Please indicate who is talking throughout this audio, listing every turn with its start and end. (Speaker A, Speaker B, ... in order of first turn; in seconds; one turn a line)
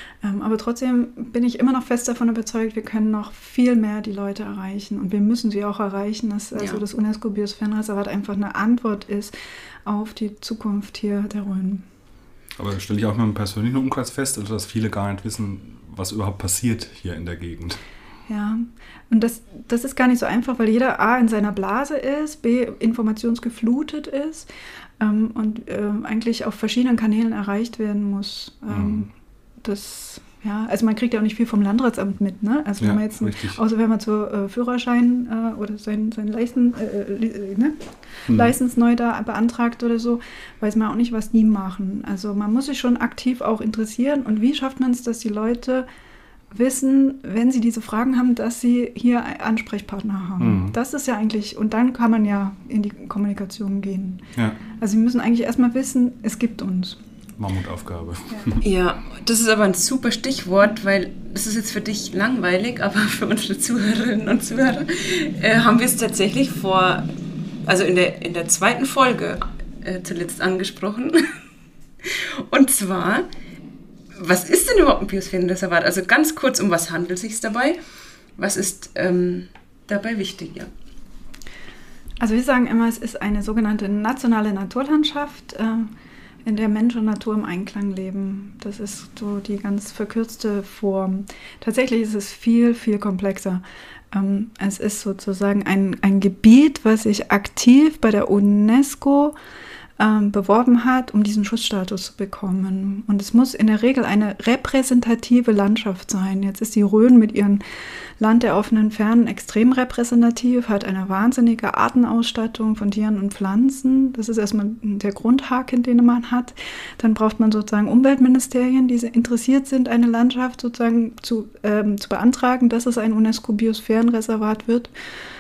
Speaker A: 0.2-11.8
Speaker B: 6.5-6.8
Speaker C: 12.6-17.8
Speaker A: 18.3-24.5
Speaker A: 25.0-29.1
Speaker C: 28.7-29.0
Speaker A: 29.6-45.9
Speaker C: 32.8-33.6
Speaker C: 38.3-38.5
Speaker A: 46.5-54.3
Speaker C: 50.4-50.8
Speaker A: 54.8-57.0
Speaker C: 57.4-58.6
Speaker B: 58.6-71.3
Speaker B: 72.0-73.3
Speaker B: 74.1-77.8
Speaker B: 78.4-80.7
Speaker A: 82.2-85.9
Speaker A: 86.5-99.3
Speaker A: 100.0-107.6
Speaker A: 108.2-124.9